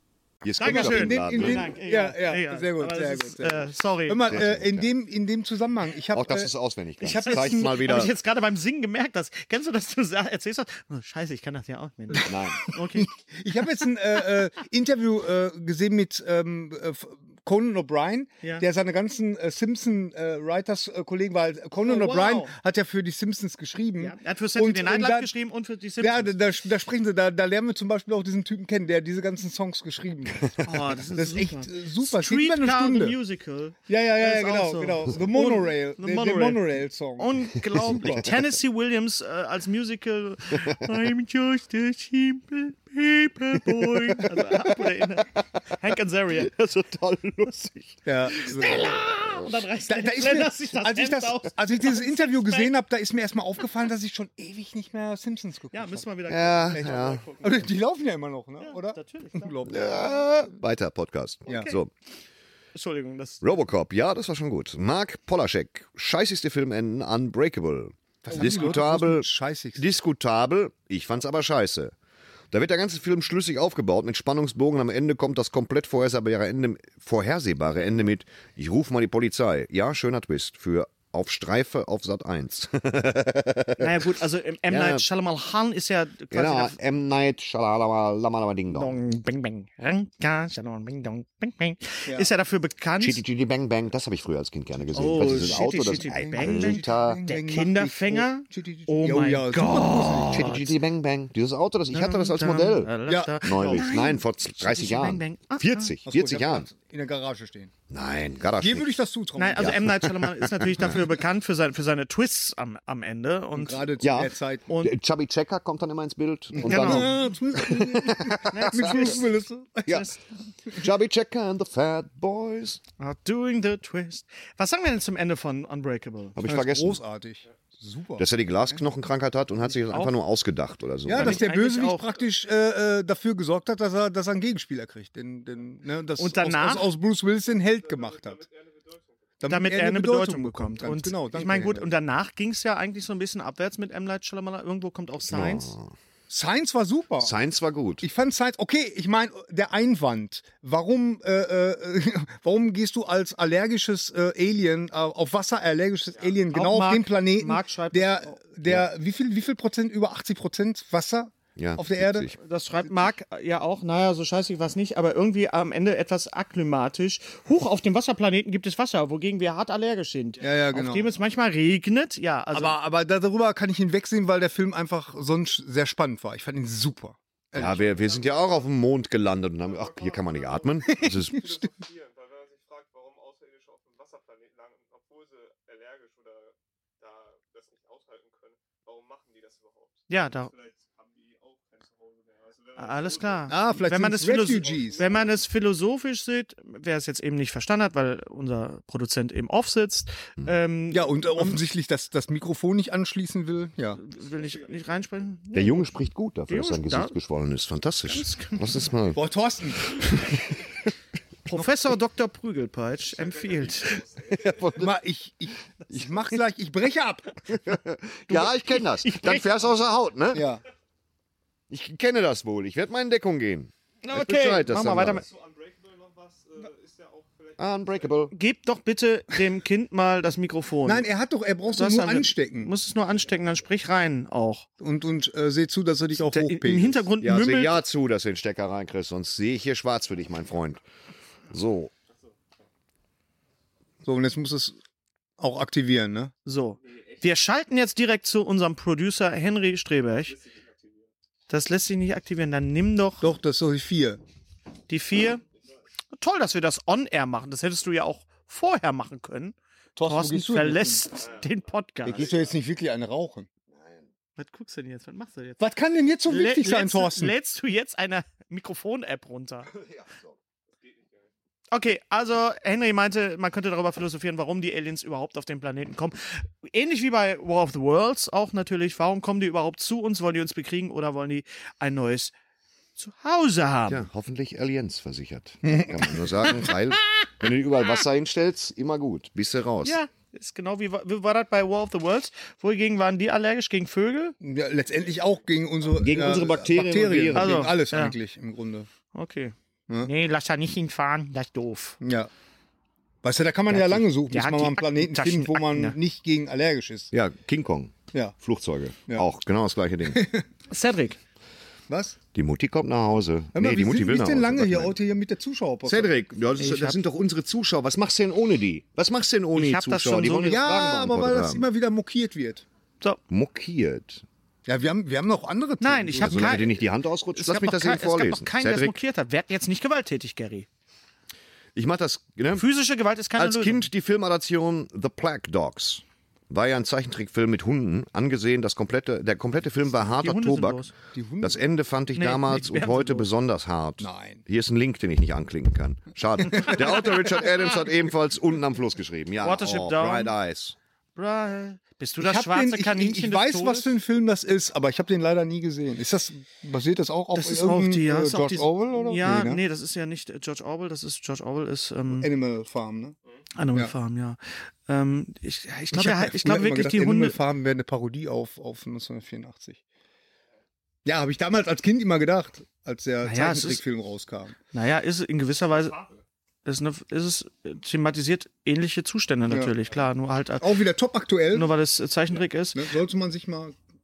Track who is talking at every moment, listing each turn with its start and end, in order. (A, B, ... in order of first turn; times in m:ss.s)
0:00.4-0:01.7 A
0:00.6-0:04.3 B
0:00.6-0:07.8 C
0:04.3-0:04.9 A
0:06.1-0:08.1 A
0:07.0-0:13.1 B
0:12.1-0:25.3 C
0:12.2-0:12.7 A
0:21.8-0:22.5 B
0:24.0-0:26.3 B
0:26.0-0:33.2 C
0:30.6-0:36.6 B
0:33.9-0:38.3 C
0:37.2-0:46.7 B
0:46.4-0:47.9 A
0:48.0-0:48.9 C
0:48.3-0:52.7 B
0:48.6-0:49.5 A
0:49.8-0:56.0 C
0:55.7-0:57.7 B
0:56.3-0:57.2 A
0:56.7-1:00.5 C
0:58.6-0:59.6 B
0:59.7-1:01.9 A
1:01.5-1:01.7 C
1:01.5-1:01.8 B
1:02.7-1:03.6 B
1:03.4-1:11.9 A
1:08.2-1:09.8 C
1:08.3-1:08.8 B
1:12.5-1:24.0 A
1:23.8-1:26.8 B
1:24.7-1:25.0 A
1:26.3-1:29.0 A
1:28.7-1:33.2 B
1:33.0-1:37.2 A
1:34.9-1:40.7 B
1:35.1-1:40.6 C
1:40.0-1:46.7 A
1:41.9-1:45.9 B
1:43.1-1:44.0 C
1:46.0-1:47.7 C
1:47.9-1:49.0 A
1:48.6-1:49.8 C
1:49.4-1:53.9 B
1:49.6-1:51.0 A
1:53.5-1:54.7 C
1:54.0-1:59.2 A
1:56.5-2:00.0 C
1:56.6-1:57.1 B
1:58.4-1:59.2 B
1:59.9-2:00.2 B
2:00.7-2:02.8 A
2:03.0-2:06.4 B
2:06.4-2:07.0 A
2:06.4-2:08.8 C
2:08.2-2:11.5 A
2:09.9-2:10.1 B
2:11.0-2:18.4 C
2:11.1-2:12.1 B
2:16.2-2:16.9 B
2:17.5-2:19.4 D
2:19.4-2:21.9 C
2:19.5-2:25.7 B
2:25.3-2:25.9 A
2:26.3-2:27.3 C
2:27.2-2:28.0 A
2:28.0-2:42.3 C
2:36.5-2:38.4 B
2:41.6-2:42.4 A
2:42.4-2:52.8 B
2:50.4-2:51.1 C
2:52.5-2:57.8 C
2:57.5-3:01.4 A
2:57.6-2:58.7 D
2:59.6-3:13.5 D
3:10.1-3:10.5 B
3:12.8-3:21.6 B
3:13.5-3:15.0 C
3:14.4-3:15.4 D
3:20.9-3:24.0 C
3:24.0-3:25.9 B
3:25.5-3:30.8 A
3:26.5-3:27.2 B
3:28.1-3:28.8 B
3:29.1-3:30.0 C
3:31.4-3:34.0 B
3:33.1-3:34.8 D
3:34.2-3:35.0 A
3:34.7-3:37.4 C
3:37.5-3:40.5 A
3:38.3-3:39.5 B
3:40.3-3:40.6 C
3:41.7-3:45.2 A
3:44.0-3:45.2 B
3:45.0-3:48.3 D
3:47.6-3:48.3 A
3:48.3-3:51.0 B
3:50.8-3:52.7 C
3:51.8-3:54.6 B
3:54.8-3:57.0 C
3:56.1-3:57.8 B
3:57.2-4:00.8 A
4:01.5-4:01.9 A
4:04.0-4:04.8 C
4:05.4-4:06.3 C
4:06.4-4:10.4 B
4:06.8-4:07.2 D
4:10.2-4:11.1 D
4:11.5-4:13.3 B
4:13.2-4:14.2 C
4:14.9-4:15.4 B
4:16.1-4:22.3 B
4:20.0-4:21.0 C
4:21.2-4:21.5 D
4:22.0-4:22.5 D
4:22.0-4:23.5 C
4:24.4-4:25.6 B
4:25.6-4:27.3 C
4:26.3-4:29.7 B
4:30.8-4:31.3 D
4:31.7-4:42.3 B
4:43.0-4:44.0 B
4:43.9-4:50.0 A
4:45.6-4:46.1 C
4:49.8-4:54.3 B
4:54.4-4:58.9 C
4:56.0-4:57.6 A
4:57.3-4:58.2 B
4:59.1-5:02.0 B
5:02.0-5:02.3 C
5:03.2-5:07.1 C
5:03.7-5:06.0 B
5:07.1-5:10.3 A
5:10.1-5:10.4 C
5:10.7-5:11.2 B
5:11.9-5:12.2 C
5:12.3-5:14.9 A
5:13.5-5:16.1 C
5:15.8-5:21.6 A
5:16.6-5:17.0 B
5:19.5-5:20.7 B
5:20.4-5:22.6 C
5:23.3-5:24.2 A
5:24.6-5:26.7 C
5:25.8-5:26.8 B
5:26.2-5:29.0 A
5:27.3-5:30.7 B
5:31.7-5:32.6 A
5:32.6-5:33.9 B
5:33.4-5:40.8 A
5:40.1-5:40.9 B
5:41.1-5:41.6 C
5:41.4-5:50.8 A
5:42.1-5:43.3 B
5:44.0-5:44.4 C
5:46.5-5:47.2 C
5:49.4-5:50.3 B
5:51.2-5:53.9 B
5:52.2-5:59.6 C
5:57.3-6:02.3 B
6:02.1-6:03.2 C
6:03.6-6:07.4 B
6:05.9-6:09.8 C
6:11.0-6:14.6 C
6:13.2-6:13.8 B
6:14.7-6:16.0 B
6:16.6-6:20.8 B
6:20.6-6:21.7 C
6:21.5-6:22.8 B
6:22.7-6:23.8 C